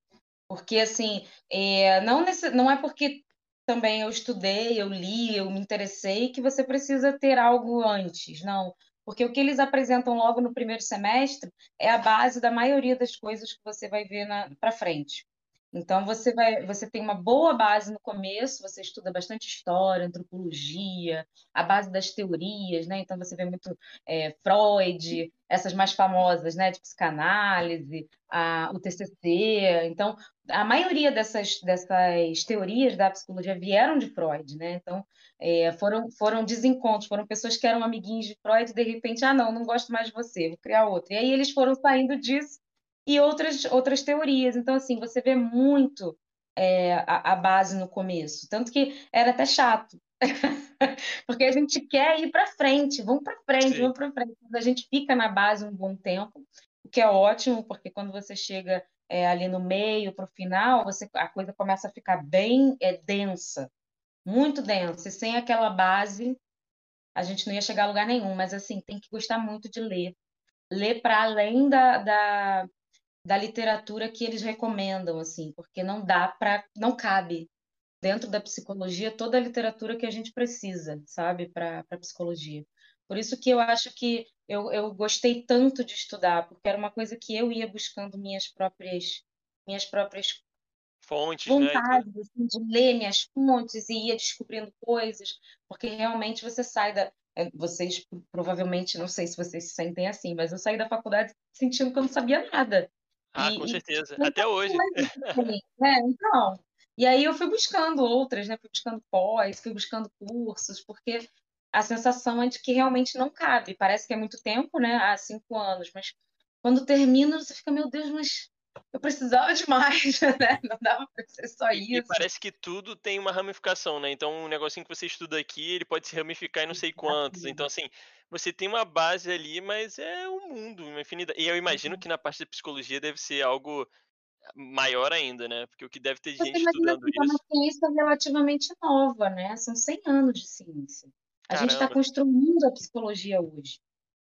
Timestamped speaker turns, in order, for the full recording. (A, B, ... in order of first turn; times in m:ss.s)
0:00.5-1:03.7 A
0:53.6-0:53.9 B
1:04.2-1:06.4 A
1:07.2-1:10.1 A
1:10.7-1:12.7 A
1:13.2-1:17.5 A
1:18.0-1:30.4 A
1:31.0-1:32.0 B
1:31.5-2:02.2 A
1:43.3-1:45.4 B
2:01.7-2:13.9 B
2:06.7-2:07.6 A
2:11.7-2:12.0 A
2:14.5-2:17.4 B
2:16.4-2:23.8 A
2:21.5-2:22.0 B